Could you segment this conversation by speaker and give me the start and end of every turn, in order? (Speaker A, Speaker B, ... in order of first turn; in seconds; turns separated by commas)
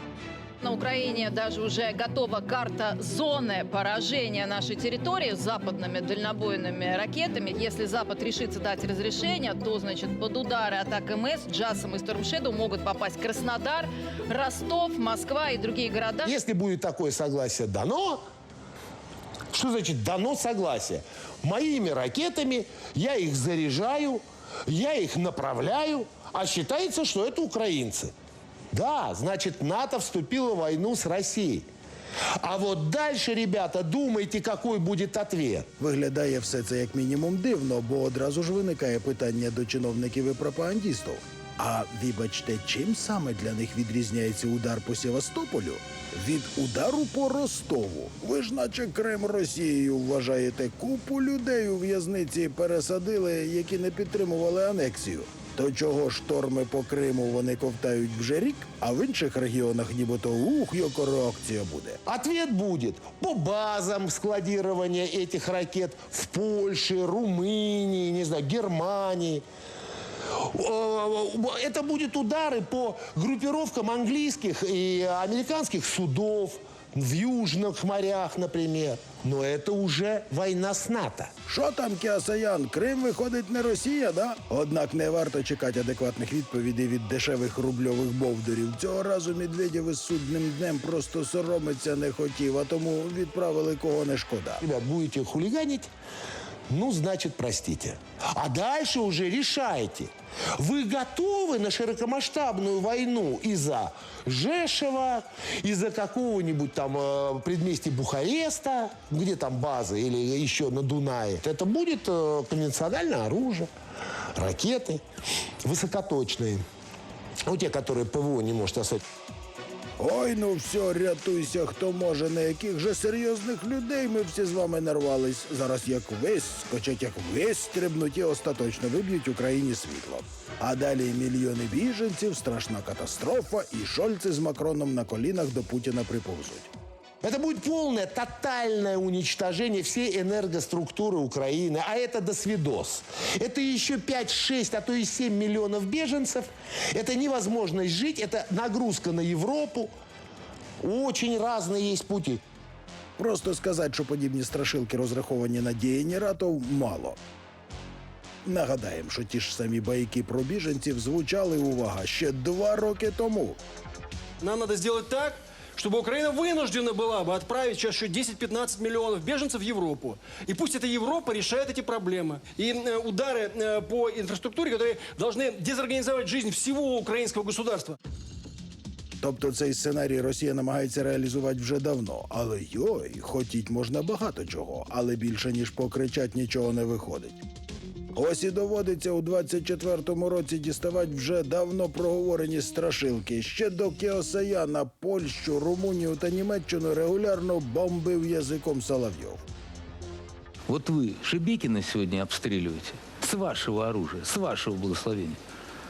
Speaker A: 0.6-16.3, Speaker B: 16.2-18.2, Speaker B: 19.5-28.1, Speaker B: 28.7-31.7, Speaker B: 32.4-35.7, Speaker C: 35.8-62.0, Speaker B: 62.1-69.4, Speaker B: 70.5-81.3, Speaker C: 81.5-94.6, Speaker B: 94.6-95.9, Speaker B: 96.7-113.7, Speaker B: 114.4-115.0, Speaker B: 115.6-116.6, Speaker B: 117.5-119.0, Speaker C: 120.0-136.7, Speaker B: 137.2-149.9, Speaker B: 150.8-152.4, Speaker C: 153.2-157.2, Speaker C: 158.4-163.6, Speaker D: 164.4-177.9, Speaker C: 179.2-187.4, Speaker C: 188.1-199.4, Speaker E: 200.7-205.4